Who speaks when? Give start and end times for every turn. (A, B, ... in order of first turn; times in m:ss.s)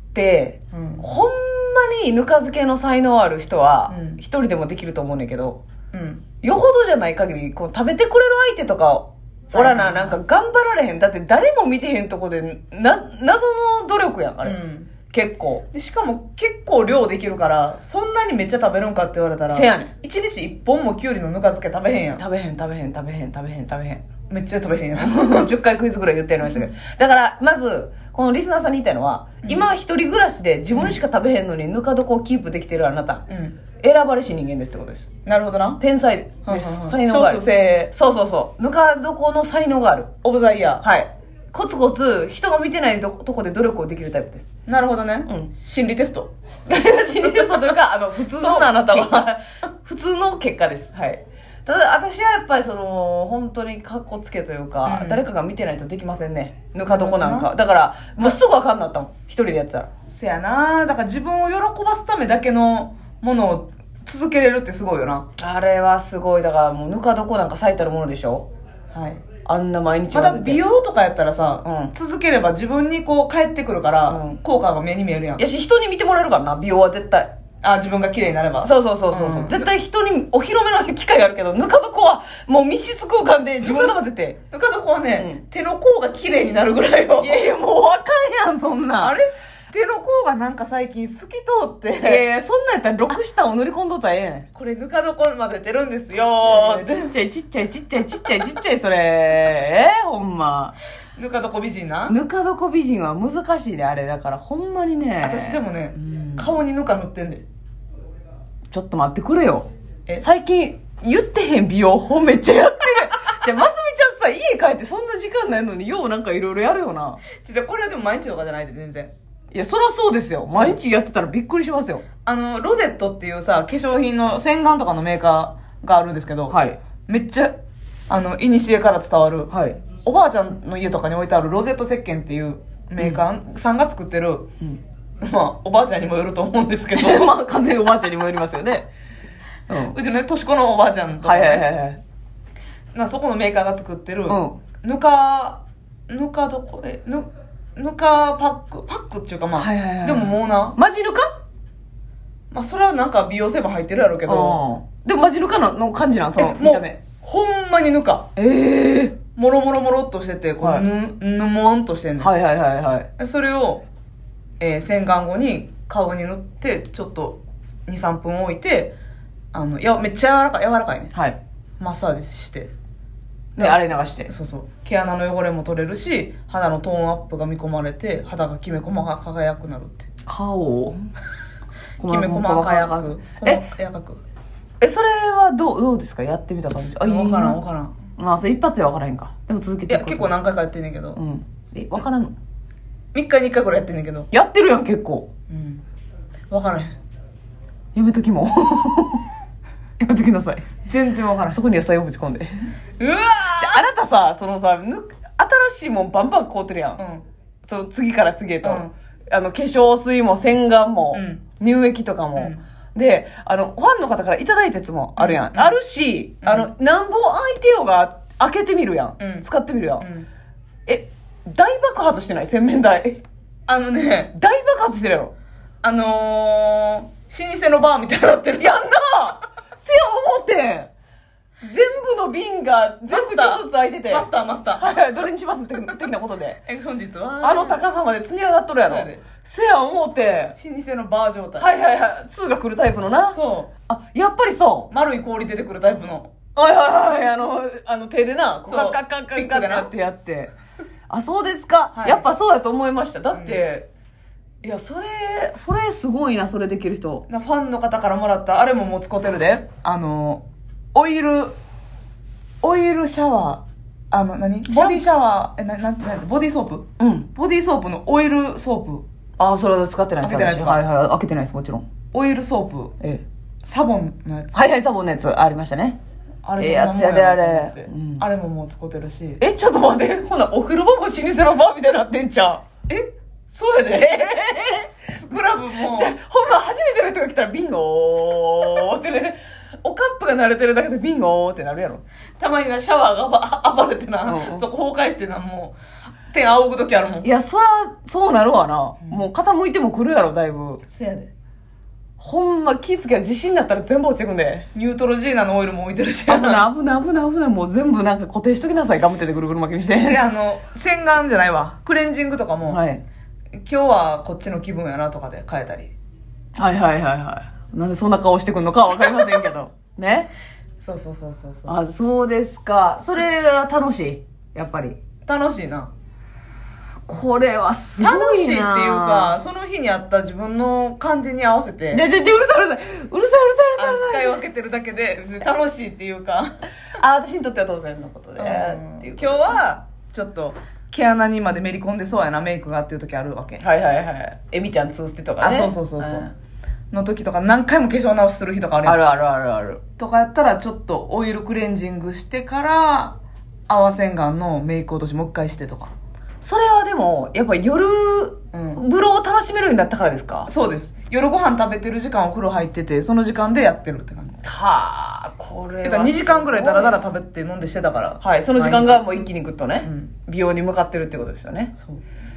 0:00.1-0:05.6 A
0:00.7-0:01.1 B
0:03.9-0:04.2 B
0:05.9-0:06.2 B
0:06.4-0:14.6 A
0:09.5-0:10.2 B
0:14.4-0:14.9 B
0:15.1-0:15.6 A
0:15.7-0:22.2 B
0:19.5-0:19.9 A
0:22.2-0:24.0 A
0:24.3-0:25.5 B
0:25.0-0:33.2 A
0:29.4-0:29.7 B
0:30.7-0:31.0 B
0:33.3-0:33.6 B
0:33.8-0:35.1 A
0:35.2-0:35.8 B
0:35.8-0:40.1 A
0:36.4-0:37.9 B
0:40.2-0:40.8 B
0:40.8-0:44.5 A
0:44.7-0:46.3 B
0:46.7-0:59.9 A
0:47.2-0:47.8 B
0:48.3-0:49.3 B
0:54.8-0:55.2 B
0:56.9-0:57.5 B
1:00.1-1:05.2 B
1:05.4-1:08.5 A
1:08.9-1:09.2 B
1:09.4-1:10.6 A
1:10.1-1:15.4 B
1:11.6-1:11.9 A
1:14.1-1:14.4 A
1:15.4-1:17.3 A
1:17.6-1:19.7 B
1:18.6-1:24.4 A
1:23.6-1:24.0 B
1:24.5-1:27.5 B
1:27.2-1:29.2 A
1:29.0-1:32.2 B
1:32.0-1:34.5 A
1:34.5-1:37.1 B
1:36.4-1:40.8 A
1:41.2-1:42.2 B
1:42.1-1:46.5 A
1:45.2-1:47.4 B
1:48.7-1:57.2 A
1:57.3-1:59.1 B
1:59.5-2:02.0 A
2:02.2-2:06.6 B
2:06.5-2:06.8 A
2:07.1-2:07.6 B
2:08.1-2:14.5 B
2:09.5-2:09.8 A
2:15.2-2:17.3 B
2:16.9-2:18.9 A
2:19.7-2:20.0 A
2:19.7-2:21.7 B
2:21.2-2:22.0 A
2:22.9-2:30.8 B
2:24.3-2:24.6 A
2:29.5-2:31.3 A
2:32.5-2:34.6 B
2:34.3-2:37.0 A
2:36.3-2:38.3 B
2:38.4-2:39.2 A
2:39.4-2:42.3 B
2:40.6-2:40.8 A
2:42.2-2:43.1 A
2:43.2-2:43.8 B
2:44.6-2:48.9 B
2:49.5-2:51.1 B
2:51.1-2:51.4 A
2:51.8-2:52.7 B
2:53.6-2:54.3 A
2:53.6-3:00.0 B
3:00.2-3:01.0 A
3:02.0-3:04.2 B
3:02.0-3:03.6 A
3:04.8-3:07.6 A
3:07.0-3:07.9 B
3:08.2-3:10.4 A
3:09.9-3:11.2 B
3:11.2-3:12.3 A
3:13.1-3:14.3 B
3:14.3-3:15.3 A
3:15.5-3:15.8 B
3:16.5-3:17.0 B
3:17.9-3:19.2 A
3:20.0-3:20.7 A
3:20.8-3:21.6 B
3:21.5-3:22.7 A
3:23.0-3:23.8 B
3:23.6-3:27.0 A
3:27.0-3:27.2 B
3:27.6-3:40.1 A
3:28.6-3:28.9 B
3:31.1-3:31.4 B
3:32.3-3:32.6 B
3:35.2-3:35.8 B
3:36.4-3:36.7 B
3:39.2-3:39.4 B
3:40.0-3:40.3 B
3:40.8-3:43.2 A
3:43.7-3:44.3 B
3:44.3-3:45.3 A
3:45.8-3:48.8 B
3:48.6-3:50.9 A
3:51.6-3:54.2 A
3:53.1-3:55.1 B
3:54.8-3:56.6 A
3:56.6-3:57.9 B
3:57.4-4:00.6 A
3:58.8-3:59.2 B
4:00.6-4:01.7 B
4:01.6-4:04.9 A
4:03.3-4:03.7 B
4:04.9-4:06.3 B
4:06.6-4:10.5 A
4:08.7-4:09.9 B
4:11.1-4:13.9 A
4:11.9-4:12.2 B
4:13.3-4:13.6 B
4:14.6-4:17.2 A
4:17.3-4:21.6 B
4:22.6-4:29.0 B
4:24.7-4:25.0 A
4:27.0-4:27.3 A
4:29.4-4:31.9 A
4:30.2-4:30.8 B
4:32.1-4:33.0 B
4:33.6-4:34.6 B
4:34.5-4:36.0 A
4:36.4-4:39.4 B
4:36.6-4:38.2 A
4:39.4-4:42.6 A
4:42.9-4:46.2 B
4:43.9-4:52.0 A
4:52.4-4:55.8 B
4:54.2-4:54.6 A
4:56.3-4:57.3 B
4:57.2-5:00.8 A
5:00.9-5:01.3 B
5:02.2-5:04.7 A
5:04.7-5:06.6 B
5:06.3-5:10.2 A
5:10.0-5:12.8 B
5:12.7-5:13.0 A
5:13.6-5:15.9 B
5:16.6-5:20.3 A
5:20.8-5:21.7 B
5:21.7-5:25.0 A
5:25.2-5:25.9 B
5:27.1-5:29.3 A
5:28.0-5:32.0 B
5:31.9-5:34.4 A
5:33.8-5:36.6 B
5:37.0-5:39.6 A
5:38.4-5:43.6 B
5:43.6-5:46.3 A
5:45.4-5:46.3 B
5:46.9-5:49.0 B
5:48.8-5:49.8 A
5:50.0-5:53.2 B
5:53.7-5:55.9 B
5:56.4-6:00.5 A
5:58.5-5:58.8 B
6:00.5-6:04.4 B
6:04.4-6:07.0 A
6:05.8-6:09.2 B
6:08.2-6:11.7 A
6:09.8-6:10.1 B